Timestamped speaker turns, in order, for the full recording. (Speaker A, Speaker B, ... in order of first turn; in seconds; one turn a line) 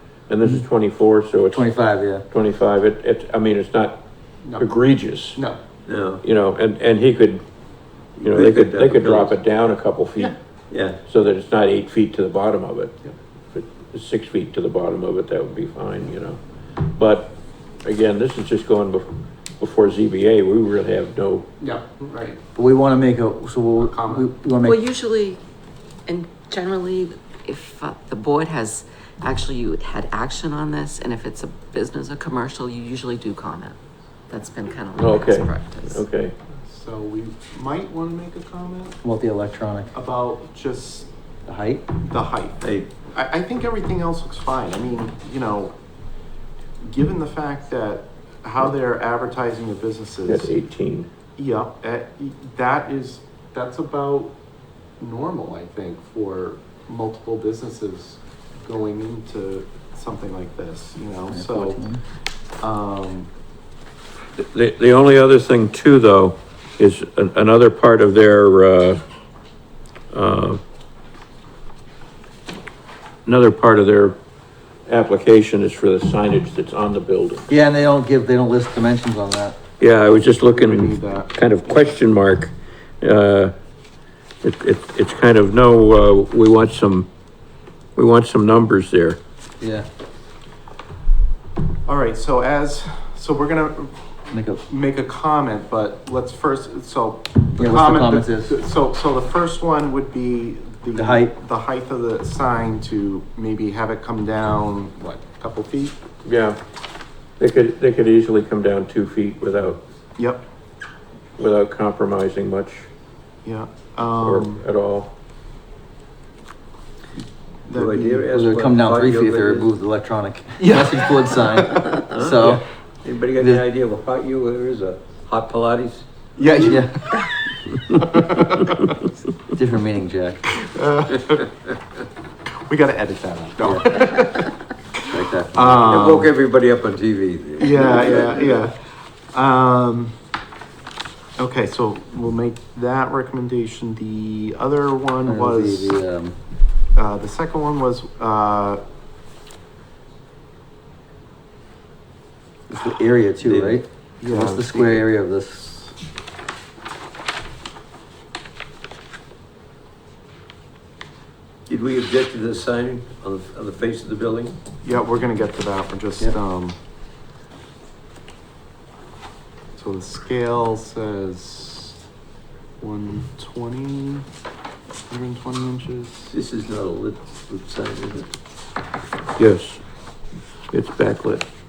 Speaker A: 0.3-1.8
Speaker B: 1.5-2.2
Speaker A: 2.3-4.0
Speaker A: 4.6-5.4
Speaker C: 5.9-6.2
Speaker A: 6.2-7.4
Speaker C: 8.2-9.3
Speaker A: 8.2-10.3
Speaker C: 10.7-11.0
Speaker A: 11.0-12.9
Speaker A: 13.5-16.4
Speaker A: 16.9-19.1
Speaker A: 19.6-21.5
Speaker D: 21.6-22.4
Speaker B: 22.6-24.8
Speaker D: 23.8-24.3
Speaker E: 24.6-25.4
Speaker E: 26.1-33.8
Speaker E: 34.3-36.0
Speaker A: 35.0-36.3
Speaker D: 36.6-39.0
Speaker B: 39.0-39.9
Speaker D: 39.9-41.1
Speaker B: 41.5-41.9
Speaker D: 42.0-45.8
Speaker C: 42.6-42.9
Speaker D: 46.8-50.5
Speaker A: 50.3-51.1
Speaker D: 51.4-54.4
Speaker D: 55.0-61.9
Speaker B: 61.3-62.0
Speaker D: 62.6-63.3
Speaker A: 64.4-69.0
Speaker A: 70.1-70.6
Speaker A: 73.3-74.2
Speaker A: 74.9-77.5
Speaker B: 77.5-79.6
Speaker A: 79.8-83.5
Speaker D: 80.2-82.0
Speaker A: 84.4-87.1
Speaker A: 88.0-89.2
Speaker B: 89.6-89.9
Speaker D: 91.9-106.0
Speaker B: 94.3-94.6
Speaker B: 97.6-98.6
Speaker B: 101.0-101.3
Speaker A: 106.2-106.6
Speaker A: 107.4-109.8
Speaker D: 110.2-110.5
Speaker A: 111.4-112.9
Speaker D: 113.4-114.7
Speaker A: 114.2-115.1
Speaker D: 117.7-118.3
Speaker C: 117.7-119.8
Speaker B: 118.3-122.6
Speaker D: 120.6-122.0
Speaker C: 121.9-126.8
Speaker B: 123.4-123.6
Speaker D: 126.4-129.0
Speaker B: 126.6-127.0
Speaker B: 129.5-130.6
Speaker D: 130.6-131.5
Speaker D: 132.7-136.3
Speaker B: 135.1-135.6
Speaker C: 135.2-138.6
Speaker D: 137.6-140.2
Speaker D: 141.4-146.0
Speaker B: 145.2-146.4
Speaker D: 146.9-148.8
Speaker B: 152.7-155.9
Speaker C: 153.4-153.8
Speaker D: 154.2-154.8
Speaker C: 161.7-164.6
Speaker D: 164.8-166.8
Speaker D: 169.8-172.0
Speaker D: 172.8-174.3
Speaker D: 175.1-176.3
Speaker C: 176.3-178.3
Speaker A: 179.4-179.8
Speaker A: 180.7-181.5